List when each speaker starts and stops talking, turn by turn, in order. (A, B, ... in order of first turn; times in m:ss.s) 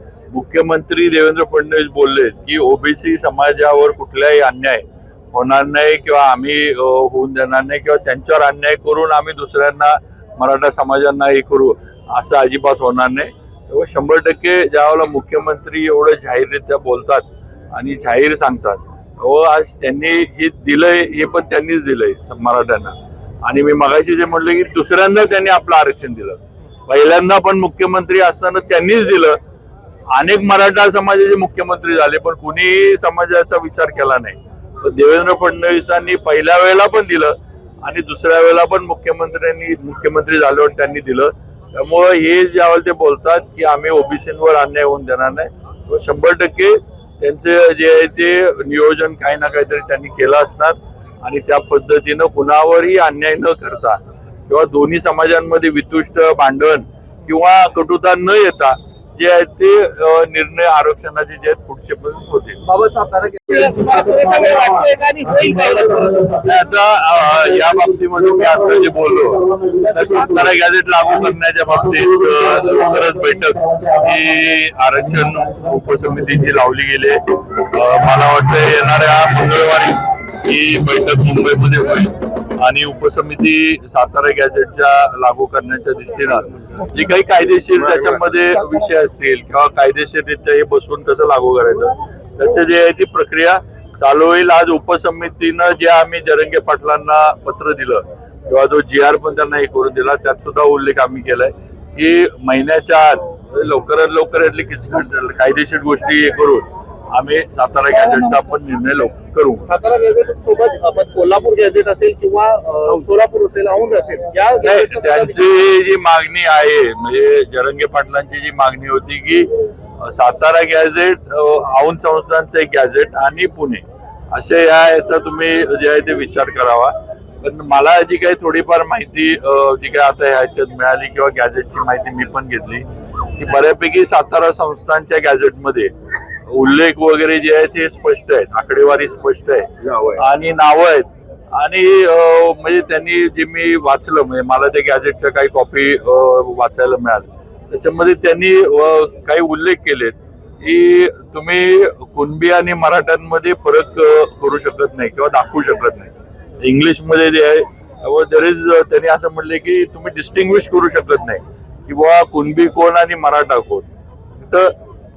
0:00.3-0:29.4 A
0:30.1-1:02.6 A
1:02.7-1:04.8 B
1:03.5-1:06.2 C
1:05.4-1:06.5 B
1:06.4-1:49.7 A
1:09.4-1:10.4 B
1:49.6-1:55.6 C
1:54.6-1:59.5 A
2:00.0-2:12.8 A
2:13.4-2:15.9 A
2:16.5-2:44.7 A